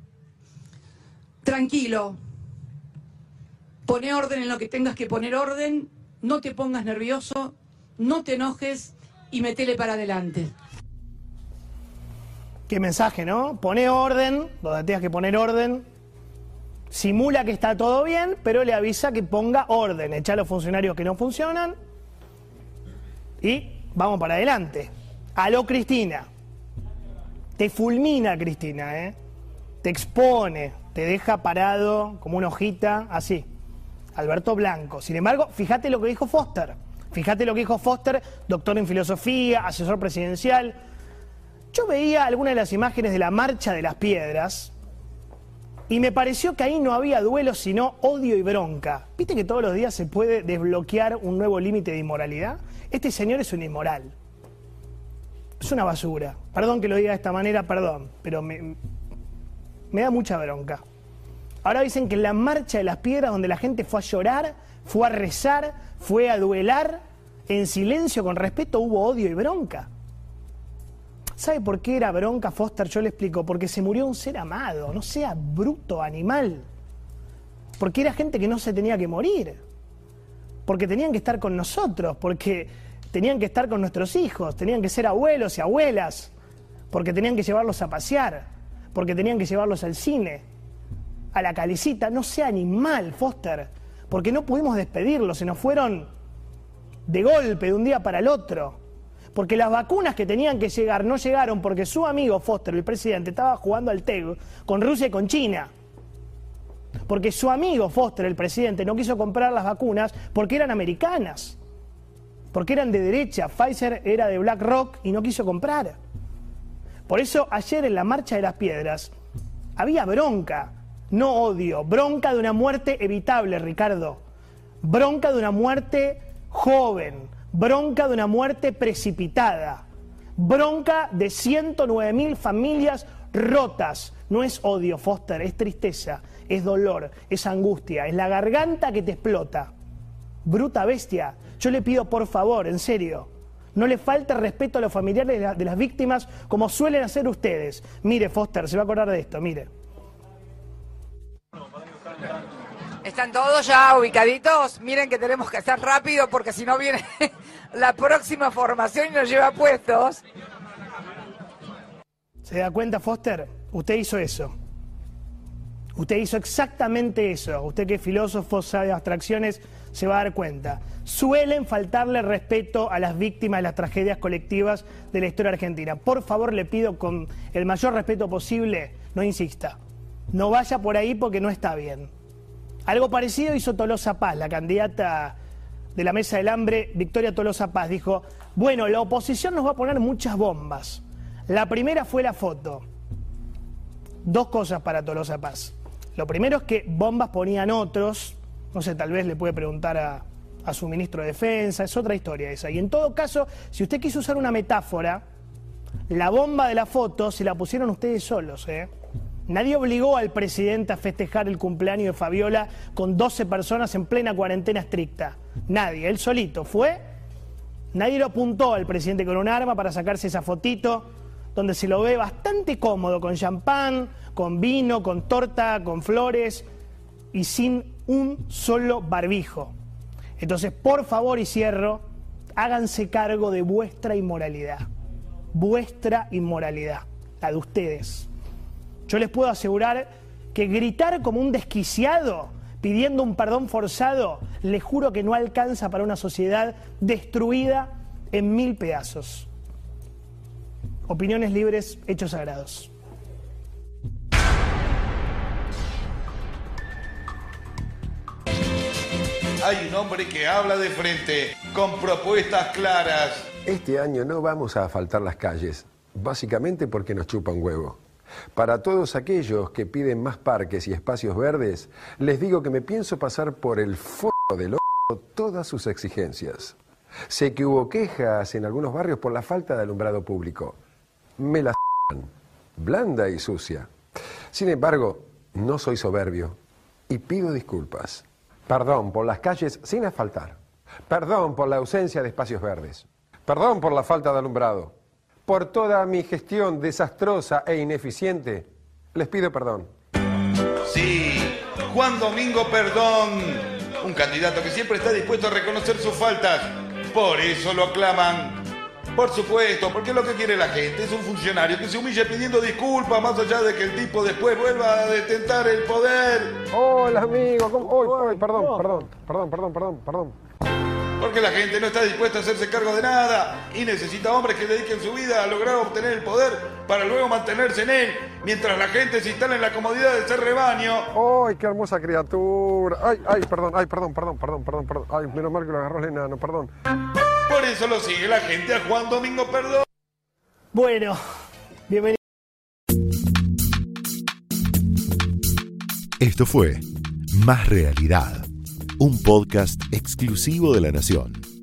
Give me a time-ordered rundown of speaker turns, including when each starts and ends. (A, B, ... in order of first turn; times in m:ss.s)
0:01.4-0:02.2 A
0:03.8-0:10.5 A
0:12.7-0:15.8 B
0:16.9-0:21.7 B
0:23.4-0:26.3 B
0:27.6-0:29.1 B
0:29.8-0:33.4 B
0:34.1-0:40.8 B
0:41.7-0:44.7 B
0:45.9-0:54.1 B
0:55.6-0:58.8 B
0:59.9-1:00.8 B
1:01.6-1:09.9 B
1:11.4-1:16.6 B
1:17.8-1:19.6 B
1:20.6-1:26.3 B
1:26.9-1:30.4 B
1:31.3-1:36.1 B
1:37.1-1:38.8 B
1:39.3-1:45.7 B
1:47.1-1:51.6 B
1:52.5-1:56.0 B
1:57.1-1:59.1 B
1:59.8-2:04.2 B
2:04.8-2:09.8 B
2:10.4-2:19.7 B
2:20.4-2:29.7 B
2:33.0-2:40.2 C
2:42.4-2:44.5 B
2:46.0-2:59.8 B
3:00.3-3:02.1 B
3:02.9-3:05.4 B
3:05.9-3:12.8 B
3:14.2-3:25.2 B
3:26.1-3:28.9 B
3:29.5-3:37.0 B
3:37.9-3:46.6 B
3:47.3-3:49.7 B
3:50.4-3:52.0 B
3:52.6-3:54.8 B
3:55.5-3:58.3 B
3:59.1-4:09.5 B
4:11.1-4:12.9 B
4:19.6-4:23.4 D
4:23.6-4:28.0 E
4:28.5-4:36.8 E
4:37.3-4:40.8 E
4:41.4-4:43.9 E
4:44.5-4:46.6 E
4:47.1-4:50.6 E
4:51.1-4:54.9 E
4:55.4-4:59.9 E
5:00.8-5:08.6 D
5:09.1-5:16.6 D
5:16.7-5:20.3 E
5:17.9-5:18.8 D
5:21.2-5:31.1 D
5:31.1-5:36.7 E
5:37.5-5:39.8 D
5:40.7-5:41.2 B
5:41.9-5:42.2 B
5:46.2-5:48.5 F
5:49.0-5:51.4 F